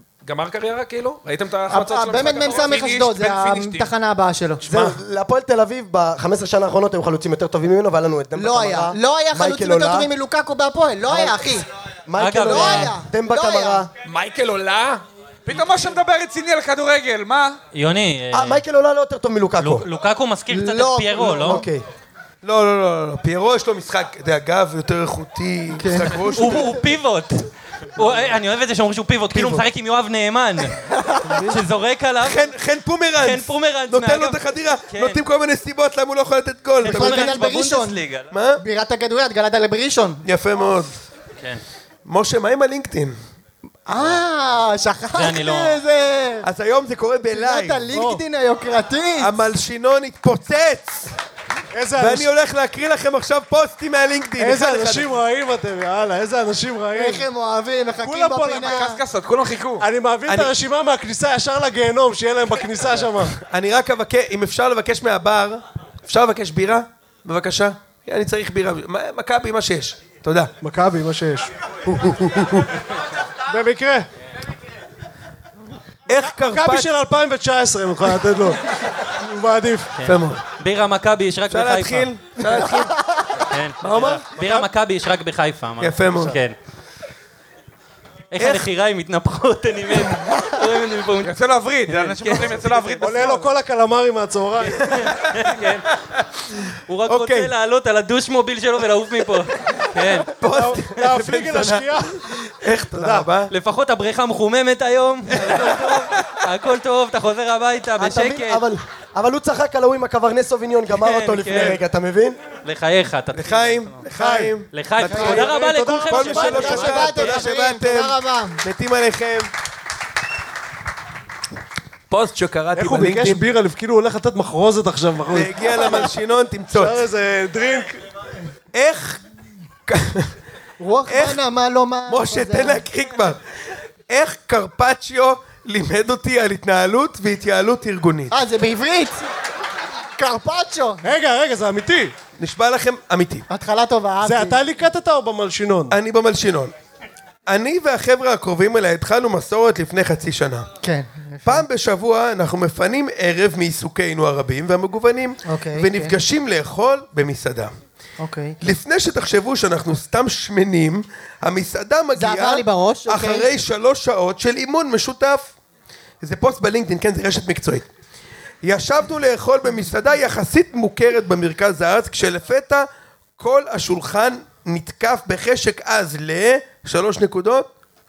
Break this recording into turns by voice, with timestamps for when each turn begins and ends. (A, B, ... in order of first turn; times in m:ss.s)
0:00.2-0:02.8 A
0:01.7-0:04.6 B
0:02.1-0:03.9 C
0:04.6-0:10.1 D
0:04.7-0:05.0 E
0:08.3-0:11.6 B
0:11.1-0:13.9 D
0:12.2-0:12.9 F
0:12.4-0:13.8 B
0:14.0-0:15.0 A
0:15.4-0:17.6 C
0:17.7-0:18.6 F
0:18.3-0:19.9 D
0:19.6-0:21.6 F
0:20.5-0:21.6 B
0:21.3-0:21.8 D
0:22.4-0:26.8 E
0:25.7-0:26.3 B
0:26.3-0:30.8 F
0:29.4-0:29.6 E
0:31.1-0:31.4 B
0:31.3-0:32.5 F
0:32.2-0:37.4 E
0:33.2-0:35.2 F
0:36.8-0:38.3 F
0:36.8-0:38.0 B
0:38.3-0:38.6 E
0:38.6-0:40.2 B
0:40.2-0:40.9 E
0:42.0-0:43.2 E
0:43.9-0:46.5 B
0:45.1-0:45.8 F
0:46.4-0:47.9 E
0:47.3-0:49.3 B
0:47.9-0:48.2 G
0:49.2-0:51.1 E
0:51.7-0:52.3 G
0:52.0-0:55.1 E
0:54.4-0:57.2 G
0:56.9-0:59.0 B
0:58.0-0:58.9 G
0:58.6-0:59.8 C
0:59.8-1:03.3 G
1:00.3-1:00.5 E
1:03.3-1:10.5 E
1:10.6-1:12.7 G
1:13.5-1:14.1 G
1:16.1-1:16.9 E
1:16.2-1:20.0 G
1:20.0-1:22.1 F
1:20.0-1:20.4 E
1:21.5-1:22.9 E
1:23.5-1:26.6 F
1:23.9-1:24.7 G
1:25.8-1:26.4 E
1:28.3-1:31.4 F
1:28.4-1:28.7 E
1:31.2-1:33.5 C
1:31.9-1:33.0 F
1:33.0-1:34.8 G
1:34.7-1:35.9 F
1:34.9-1:35.3 E
1:36.9-1:40.3 F
1:37.0-1:37.5 E
1:40.2-1:43.5 E
1:40.5-1:42.2 G
1:42.9-1:43.3 G
1:43.5-1:48.6 F
1:45.3-1:46.4 E
1:48.0-1:52.4 D
1:50.9-1:51.8 F
1:52.6-1:54.1 F
1:53.3-1:59.5 E
1:54.1-1:57.3 G
1:54.7-1:57.0 F
1:55.1-1:55.4 B
1:56.2-1:58.6 B
2:02.1-2:03.5 E
2:02.7-2:06.0 G
2:05.3-2:07.0 E
2:06.7-2:08.0 G
2:08.7-2:09.2 E
2:09.9-2:10.3 E
2:10.8-2:12.8 B
2:11.1-2:11.4 E
2:12.1-2:13.4 E
2:14.1-2:18.3 E
2:18.3-2:19.2 B
2:20.2-2:21.1 B
2:21.0-2:22.1 G
2:22.4-2:23.4 E
2:23.5-2:24.6 B
2:24.2-2:26.0 G
2:25.9-2:26.7 E
2:27.5-2:30.7 E
2:30.8-2:31.6 B
2:31.4-2:37.7 E
2:35.4-2:36.1 B
2:38.2-2:38.6 B
2:38.6-2:45.5 E
2:42.2-2:43.5 B
2:46.2-2:47.9 E
2:48.6-2:57.7 E